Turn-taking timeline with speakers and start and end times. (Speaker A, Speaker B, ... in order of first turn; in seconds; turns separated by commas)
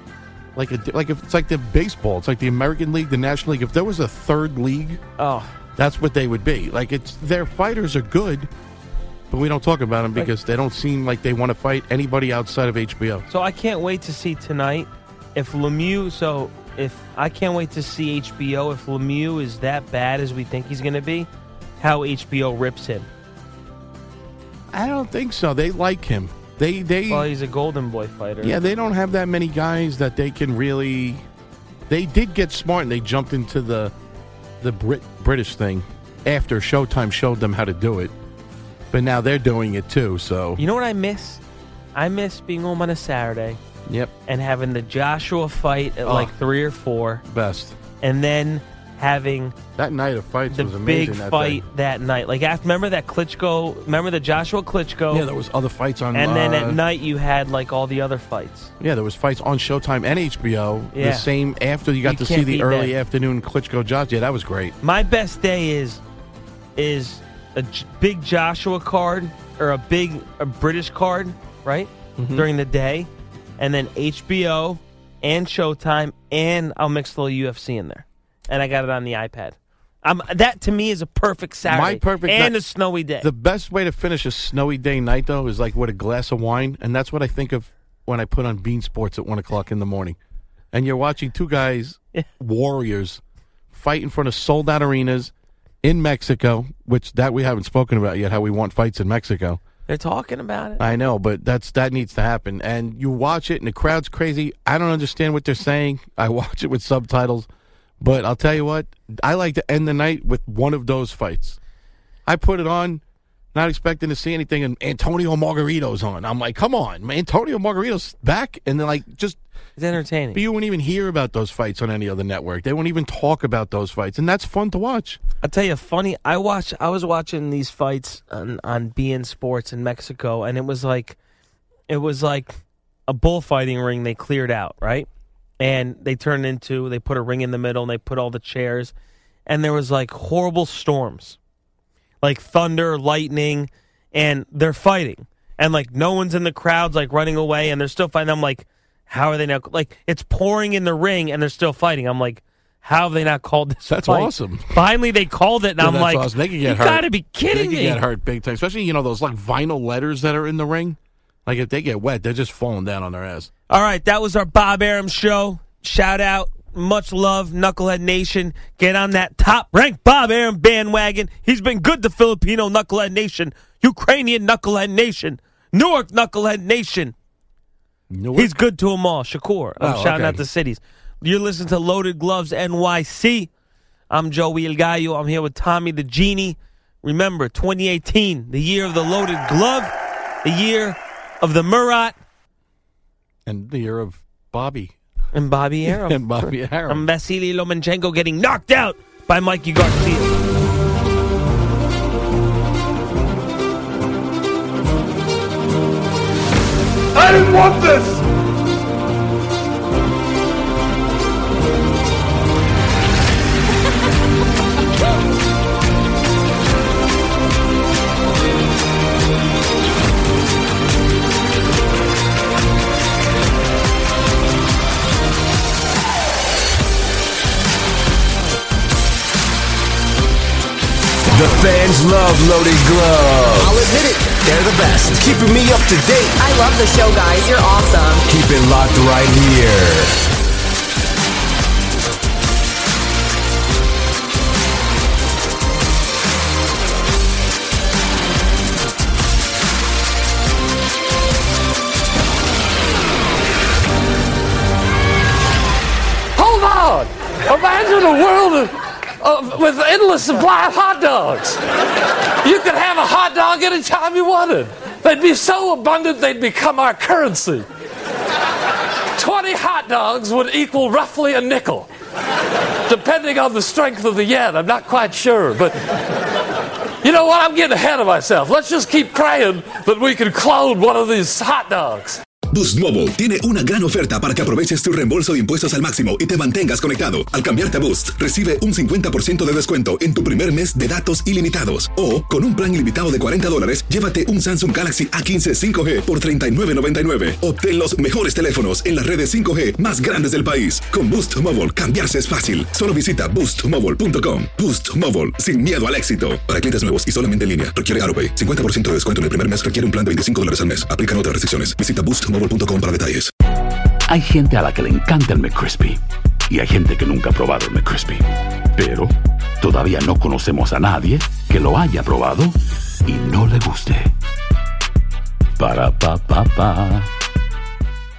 Speaker A: 0.6-5.0, Speaker B: 5.2-5.5, Speaker A: 5.8-8.5, Speaker A: 9.3-13.2, Speaker B: 13.3-21.3, Speaker B: 21.8-23.1, Speaker A: 24.7-27.3, Speaker B: 27.1-28.6, Speaker A: 28.4-31.2, Speaker A: 31.9-33.9, Speaker A: 34.6-38.1, Speaker A: 38.9-40.6, Speaker B: 40.6-41.4, Speaker B: 42.0-43.6, Speaker A: 43.9-44.1, Speaker B: 44.3-47.2, Speaker A: 46.0-46.3, Speaker A: 47.3-47.8, Speaker B: 48.0-49.6, Speaker A: 49.8-51.6, Speaker B: 50.5-55.3, Speaker A: 55.1-56.8, Speaker B: 56.1-58.7, Speaker A: 58.8-64.8, Speaker B: 60.9-61.3, Speaker B: 62.0-62.9, Speaker B: 64.8-66.0, Speaker B: 66.8-83.3, Speaker A: 72.2-72.5, Speaker A: 81.7-82.6, Speaker A: 83.2-90.2, Speaker A: 90.7-93.2, Speaker A: 93.7-99.6, Speaker B: 99.9-100.9, Speaker A: 100.8-107.5, Speaker A: 108.0-111.6, Speaker A: 112.3-113.0, Speaker A: 113.5-119.4, Speaker B: 119.8-120.4, Speaker A: 120.3-125.2, Speaker B: 125.4-131.2, Speaker B: 131.9-132.6, Speaker B: 133.1-135.1, Speaker B: 135.6-138.9, Speaker B: 139.5-141.4, Speaker B: 142.2-158.0, Speaker A: 153.9-154.8, Speaker A: 155.8-163.5, Speaker B: 163.7-177.1, Speaker A: 178.1-178.5, Speaker B: 178.3-183.5, Speaker A: 179.8-180.4, Speaker B: 184.1-189.9, Speaker B: 190.4-192.2, Speaker A: 193.5-195.0, Speaker B: 195.3-200.3, Speaker A: 195.8-197.1, Speaker C: 207.4-208.1, Speaker D: 231.3-236.3, Speaker E: 233.6-234.4, Speaker E: 236.4-238.2, Speaker D: 238.3-240.2, Speaker C: 256.4-261.6, Speaker C: 262.4-267.7, Speaker C: 269.2-271.9, Speaker C: 272.9-276.0, Speaker C: 277.0-282.2, Speaker F: 282.5-313.3, Speaker G: 314.1-324.1, Speaker G: 325.6-327.1